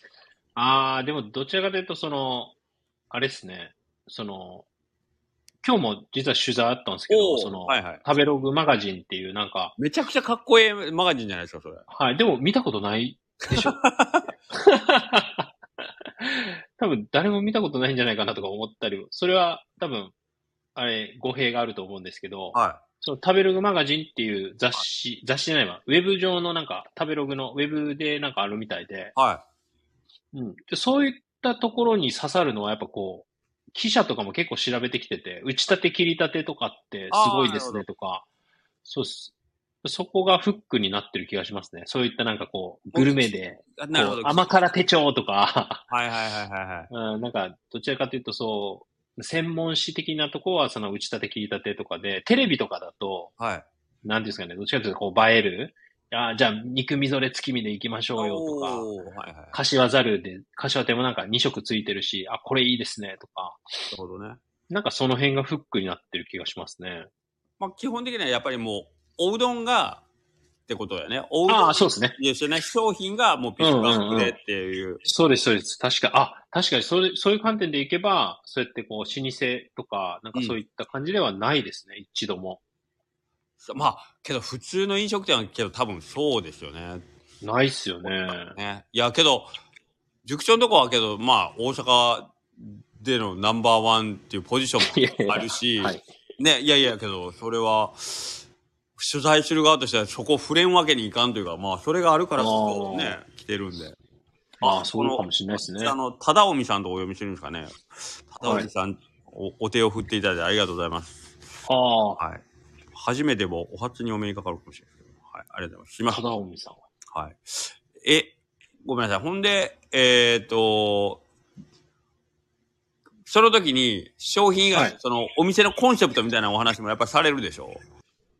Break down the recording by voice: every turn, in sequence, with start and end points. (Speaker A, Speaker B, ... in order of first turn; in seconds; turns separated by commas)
Speaker A: 0.6-2.5, Speaker A: 3.1-4.7, Speaker A: 5.6-9.7, Speaker B: 7.1-8.0, Speaker B: 9.8-11.8, Speaker A: 11.9-13.8, Speaker B: 13.5-14.3, Speaker A: 14.5-15.5, Speaker A: 16.2-20.1, Speaker A: 20.7-29.1, Speaker B: 22.5-22.8, Speaker B: 29.1-29.4, Speaker A: 30.3-38.2, Speaker B: 37.1-37.8, Speaker A: 38.8-45.8, Speaker B: 42.9-44.6, Speaker B: 45.9-46.9, Speaker A: 46.9-53.3, Speaker B: 53.4-53.7, Speaker A: 54.0-58.9, Speaker B: 58.2-59.6, Speaker A: 59.5-63.6, Speaker B: 63.9-64.4, Speaker A: 64.7-67.1, Speaker B: 67.6-70.0, Speaker B: 70.7-75.0, Speaker A: 71.5-72.1, Speaker A: 73.6-74.3, Speaker A: 75.0-82.6, Speaker B: 83.6-87.0, Speaker A: 87.4-88.5, Speaker B: 88.0-89.5, Speaker B: 90.2-98.4, Speaker A: 94.9-96.0, Speaker B: 99.0-104.0, Speaker A: 102.4-103.2, Speaker A: 104.6-106.0, Speaker B: 104.6-111.4, Speaker A: 108.4-108.7, Speaker A: 111.7-112.2, Speaker B: 112.9-116.2, Speaker A: 116.1-116.8, Speaker B: 117.1-121.2, Speaker B: 123.2-127.8